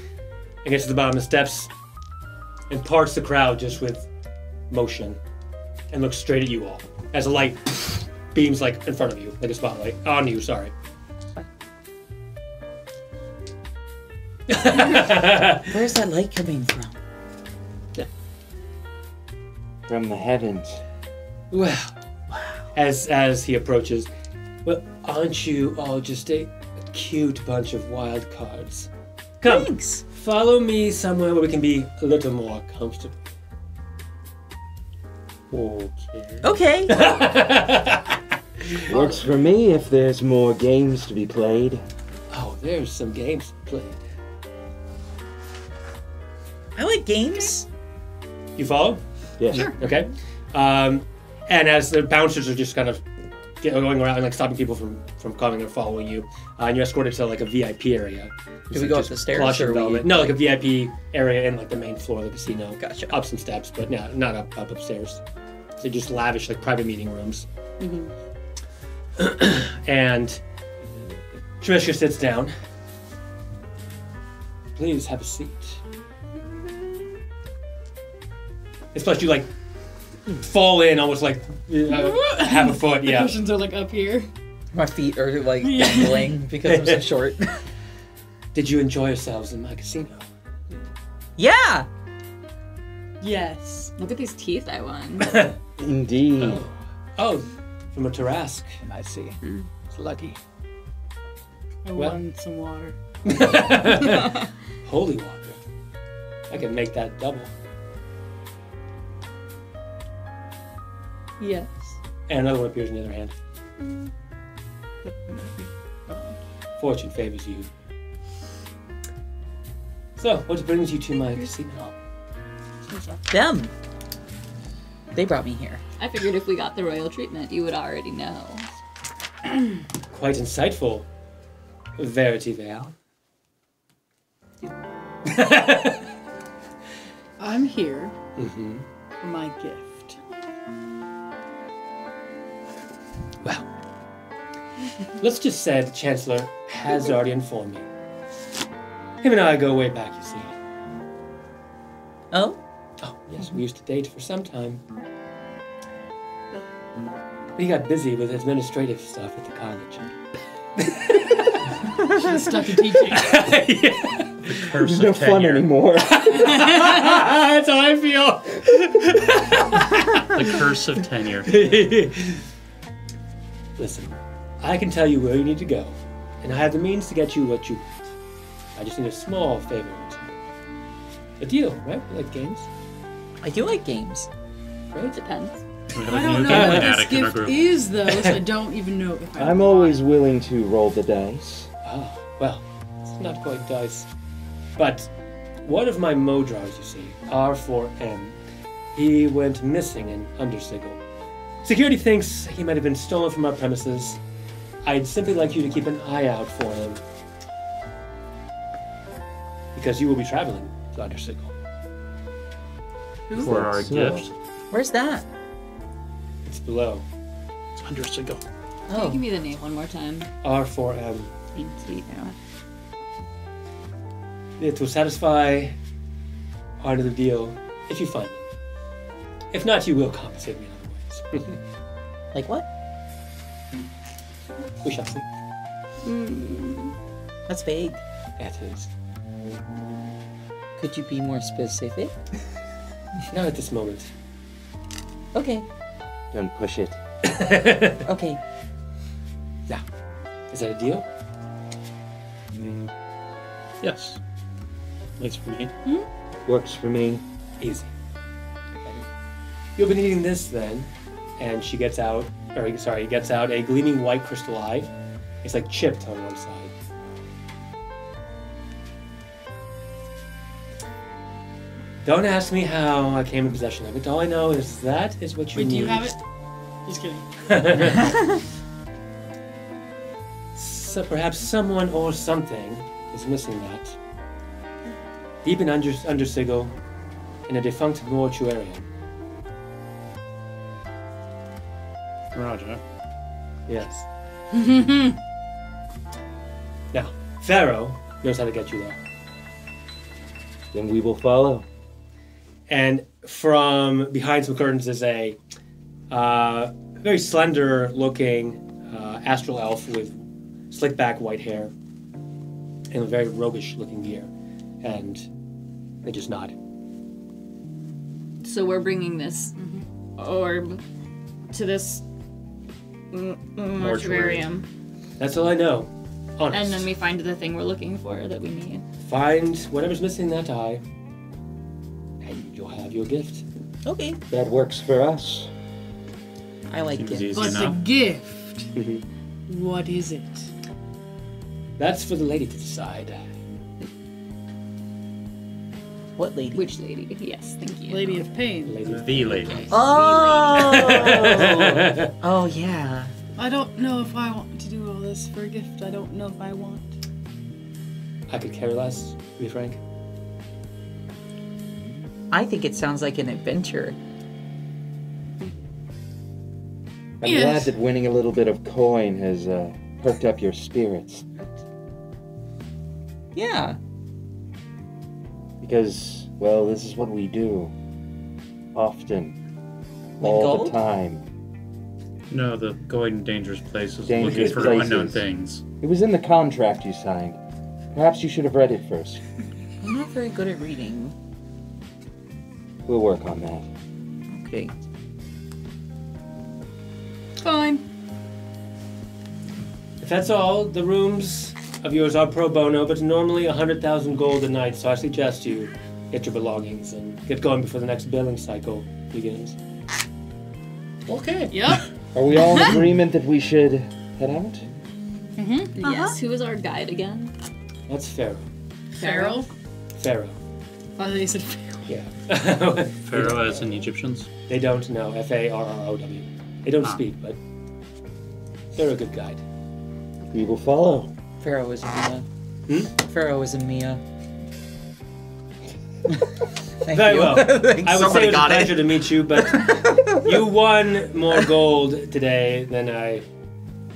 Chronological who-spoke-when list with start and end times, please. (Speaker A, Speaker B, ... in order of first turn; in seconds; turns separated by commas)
Speaker A: 0.6-1.7, Speaker A: 2.7-4.1, Speaker A: 4.7-5.2, Speaker A: 5.9-10.7, Speaker A: 14.5-15.7, Speaker B: 15.7-16.9, Speaker C: 19.9-20.8, Speaker A: 21.5-21.9, Speaker A: 22.7-24.1, Speaker A: 24.6-28.9, Speaker A: 29.4-33.2, Speaker B: 29.4-30.0, Speaker D: 35.5-36.5, Speaker B: 36.4-37.0, Speaker A: 36.9-39.0, Speaker C: 38.9-41.8, Speaker A: 42.3-44.0, Speaker B: 46.8-47.6, Speaker A: 48.6-49.0, Speaker C: 49.4-49.7, Speaker A: 49.6-53.0, Speaker A: 53.6-65.2, Speaker B: 58.7-60.3, Speaker B: 62.8-63.1, Speaker A: 65.8-67.5, Speaker E: 67.8-68.1, Speaker A: 69.2-70.4, Speaker A: 71.6-72.5, Speaker A: 74.8-75.8, Speaker A: 78.9-79.5, Speaker A: 80.3-83.3, Speaker E: 81.9-84.3, Speaker B: 84.7-87.6, Speaker E: 85.6-86.4, Speaker A: 86.7-87.0, Speaker A: 88.5-90.2, Speaker B: 91.4-91.9, Speaker E: 93.2-93.9, Speaker F: 94.0-95.4, Speaker A: 95.2-95.5, Speaker C: 95.8-96.6, Speaker A: 96.4-98.8, Speaker B: 98.8-99.3, Speaker F: 99.4-99.7, Speaker B: 100.0-100.3, Speaker E: 101.8-102.9, Speaker A: 103.2-105.6, Speaker A: 106.5-107.5, Speaker E: 111.4-112.0, Speaker A: 112.3-113.3, Speaker E: 115.0-116.4, Speaker A: 116.8-117.7, Speaker A: 120.2-121.9, Speaker B: 123.3-123.7, Speaker B: 125.1-125.8, Speaker F: 126.0-128.7, Speaker A: 130.1-131.1, Speaker A: 132.0-132.9, Speaker A: 135.2-136.0, Speaker E: 137.4-138.1, Speaker A: 138.4-138.8, Speaker E: 139.2-140.2, Speaker A: 143.4-143.7, Speaker A: 145.2-147.9, Speaker A: 149.2-150.6, Speaker B: 152.3-152.6, Speaker A: 153.0-154.8, Speaker A: 157.6-160.2, Speaker A: 160.8-161.4, Speaker E: 162.0-163.4, Speaker A: 163.0-164.6, Speaker D: 164.5-165.7, Speaker C: 164.8-166.3, Speaker A: 166.0-170.6, Speaker E: 166.4-167.2, Speaker D: 170.2-171.5, Speaker A: 171.4-172.4, Speaker A: 173.8-177.9, Speaker A: 178.8-180.2, Speaker A: 181.4-182.7, Speaker B: 183.4-184.3, Speaker F: 185.1-185.6, Speaker D: 185.9-187.7, Speaker E: 186.0-190.0, Speaker A: 186.5-186.9, Speaker C: 189.4-191.7, Speaker A: 191.8-194.1, Speaker A: 194.8-195.1, Speaker A: 195.6-198.4, Speaker A: 198.9-201.0, Speaker A: 201.6-204.2, Speaker A: 204.8-207.0, Speaker A: 209.7-211.5, Speaker D: 213.3-214.3, Speaker C: 213.4-214.3, Speaker B: 214.7-215.2, Speaker A: 216.4-217.0, Speaker D: 217.7-218.4, Speaker B: 218.9-219.2, Speaker F: 218.9-220.3, Speaker A: 220.4-221.3, Speaker F: 221.5-222.3, Speaker A: 224.6-225.8, Speaker A: 226.8-228.4, Speaker A: 229.5-231.6, Speaker B: 232.3-232.6, Speaker A: 234.8-235.2, Speaker F: 236.0-236.9, Speaker B: 237.5-238.0, Speaker A: 238.4-238.9, Speaker B: 240.8-242.1, Speaker A: 243.3-244.1, Speaker B: 245.3-245.7, Speaker C: 246.3-247.0, Speaker A: 247.2-248.0, Speaker B: 248.0-248.4, Speaker A: 250.5-251.1, Speaker D: 253.8-254.2, Speaker D: 255.2-255.7, Speaker C: 256.4-257.2, Speaker A: 257.6-257.9, Speaker A: 259.8-264.9, Speaker A: 265.4-266.7, Speaker A: 272.0-276.1, Speaker E: 275.5-276.2, Speaker E: 276.8-277.3, Speaker A: 277.4-278.2, Speaker A: 280.5-283.9, Speaker A: 285.4-286.8, Speaker A: 287.5-288.8, Speaker D: 292.3-292.8, Speaker A: 293.7-294.1, Speaker E: 294.5-295.1, Speaker A: 296.9-299.0, Speaker C: 300.7-301.6, Speaker A: 302.7-305.4, Speaker A: 306.1-311.7, Speaker A: 312.9-314.3, Speaker A: 314.8-315.3, Speaker A: 316.0-316.5, Speaker F: 318.4-319.6, Speaker E: 319.6-319.8, Speaker F: 320.2-320.8, Speaker F: 321.5-322.0, Speaker F: 323.1-324.7, Speaker D: 323.7-324.5, Speaker A: 325.2-326.9, Speaker F: 326.5-328.8, Speaker A: 329.0-330.8, Speaker A: 332.2-333.4, Speaker B: 333.8-334.2, Speaker C: 334.3-335.5, Speaker B: 336.7-337.7, Speaker D: 337.0-337.8, Speaker E: 337.3-338.7, Speaker A: 338.8-339.0, Speaker E: 339.5-340.5, Speaker A: 341.8-343.3, Speaker B: 346.2-346.6, Speaker F: 346.5-348.3, Speaker E: 347.9-348.9, Speaker A: 348.6-349.8, Speaker D: 348.8-349.7, Speaker E: 349.5-351.2, Speaker B: 349.7-353.1, Speaker A: 350.6-352.1, Speaker E: 353.4-356.9, Speaker A: 358.3-359.8, Speaker B: 362.3-364.0, Speaker C: 367.2-371.3, Speaker E: 367.2-367.7, Speaker B: 373.3-373.8, Speaker C: 375.6-377.7, Speaker C: 378.7-379.3, Speaker B: 380.2-380.8, Speaker C: 380.2-381.2, Speaker D: 382.3-385.6, Speaker C: 384.0-385.2, Speaker A: 384.2-384.9, Speaker C: 385.8-387.4, Speaker C: 387.9-389.2, Speaker B: 389.8-391.1, Speaker C: 392.9-393.7, Speaker B: 394.3-394.7, Speaker E: 397.4-397.8, Speaker A: 400.0-409.6, Speaker D: 411.1-411.8, Speaker E: 411.5-412.7, Speaker C: 412.1-414.6, Speaker E: 415.4-416.2, Speaker F: 415.8-417.3, Speaker A: 417.9-418.5, Speaker E: 418.9-419.5, Speaker F: 419.0-419.5, Speaker A: 420.0-420.4, Speaker E: 421.0-421.9, Speaker A: 421.9-423.7, Speaker D: 423.0-424.3, Speaker A: 424.5-427.4, Speaker A: 428.7-429.4, Speaker C: 430.3-431.1, Speaker B: 431.4-432.2, Speaker B: 432.9-434.0, Speaker B: 436.8-438.9, Speaker A: 436.9-443.2, Speaker B: 439.6-440.1